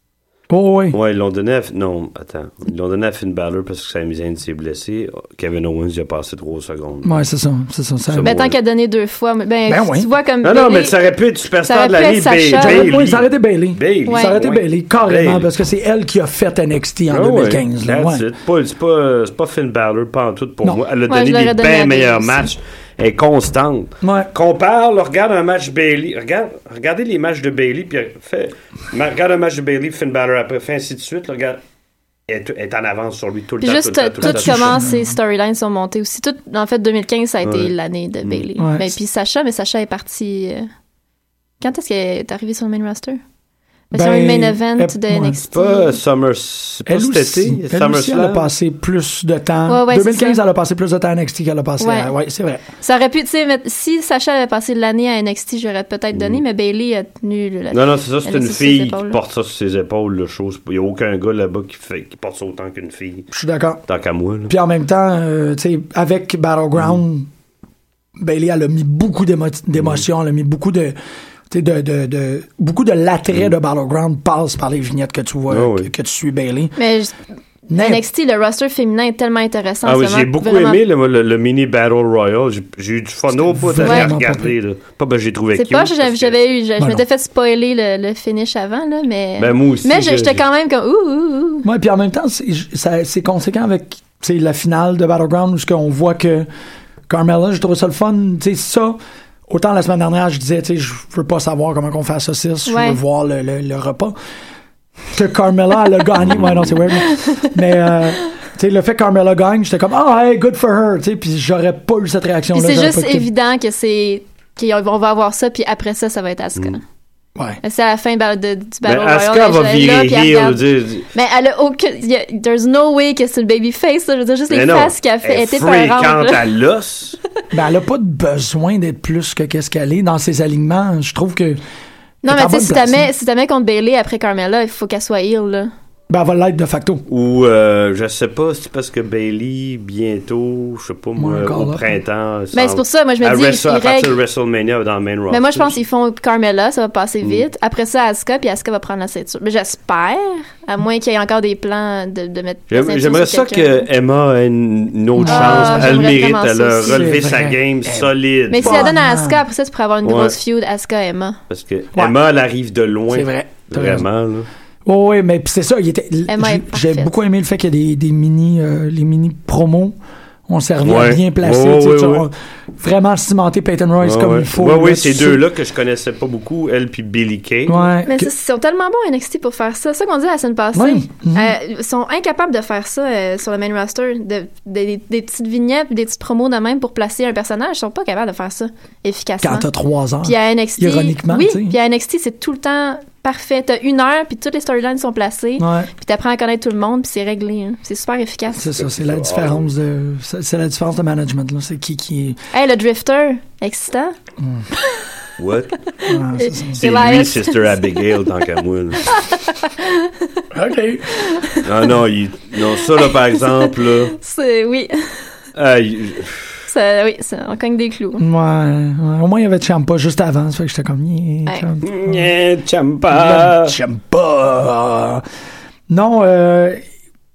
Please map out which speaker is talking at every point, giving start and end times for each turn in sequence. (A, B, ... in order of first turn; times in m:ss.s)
0:00.5-0:01.0 A
0:00.9-0:07.3 B
0:07.0-0:08.3 A
0:08.1-0:08.6 B
0:08.2-0:11.0 C
0:09.7-0:10.1 A
0:10.4-0:15.5 B
0:11.6-0:12.9 C
0:12.6-0:18.3 A
0:14.1-0:14.4 C
0:17.1-0:31.6 B
0:21.1-0:22.5 C
0:24.0-0:24.3 A
0:32.3-0:34.8 B
0:33.6-0:40.7 C
0:34.2-0:35.2 A
0:37.4-0:37.7 B
0:38.6-0:38.9 A
0:41.6-0:43.2 C
0:43.9-0:45.4 A
0:43.9-0:46.0 C
0:45.5-0:48.5 B
0:46.9-0:52.6 A
0:49.7-0:50.4 C
0:51.8-0:52.1 C
0:52.8-0:59.2 C
0:56.1-0:56.4 B
0:57.7-1:03.3 B
1:03.3-1:03.8 A
1:03.9-1:04.6 B
1:04.5-1:07.3 A
1:08.2-1:11.0 A
1:09.8-1:10.0 B
1:11.5-1:16.8 A
1:15.5-1:15.9 B
1:16.8-1:17.2 C
1:17.7-1:18.0 A
1:17.8-1:20.8 C
1:19.8-1:26.4 B
1:23.4-1:24.5 A
1:23.8-1:24.1 C
1:25.6-1:31.6 C
1:29.4-1:30.4 B
1:31.6-1:36.5 A
1:37.1-1:44.2 A
1:42.7-1:43.0 C
1:45.1-1:53.3 A
1:46.2-1:46.8 B
1:52.5-1:56.8 C
1:57.6-2:06.4 C
1:58.8-2:01.1 B
2:04.5-2:07.2 B
2:07.5-2:11.6 A
2:12.2-2:15.7 C
2:12.3-2:13.1 A
2:16.1-2:17.0 A
2:17.1-2:25.8 B
2:21.2-2:21.9 A
2:22.5-2:24.2 C
2:25.3-2:33.9 C
2:32.7-2:38.9 B
2:35.2-2:36.2 A
2:35.3-2:37.0 C
2:36.8-2:39.4 A
2:38.5-2:41.4 C
2:40.0-2:40.4 B
2:41.5-2:44.5 B
2:43.1-2:44.1 A
2:44.8-2:50.0 A
2:46.3-2:47.2 C
2:50.5-2:55.4 A
2:50.8-2:52.3 B
2:54.0-2:57.9 B
2:57.7-2:58.3 A
2:58.1-3:09.7 C
3:00.7-3:01.5 A
3:09.4-3:11.8 A
3:10.2-3:18.7 C
3:15.6-3:15.9 A
3:18.6-3:22.4 A
3:18.7-3:19.7 B
3:22.5-3:24.1 C
3:24.4-3:24.7 A
3:25.4-3:25.9 B
3:26.1-3:26.8 A
3:26.4-3:27.7 C
3:26.8-3:29.2 B
3:29.1-3:30.3 C
3:30.5-3:31.2 A
3:31.2-3:31.6 C
3:31.6-3:34.2 B
3:33.4-3:35.1 C
3:35.6-3:36.5 B
3:36.7-3:38.2 C
3:38.2-3:42.3 A
3:41.5-3:41.7 C
3:41.8-3:43.8 B
3:43.1-3:45.2 A
3:45.9-3:46.8 A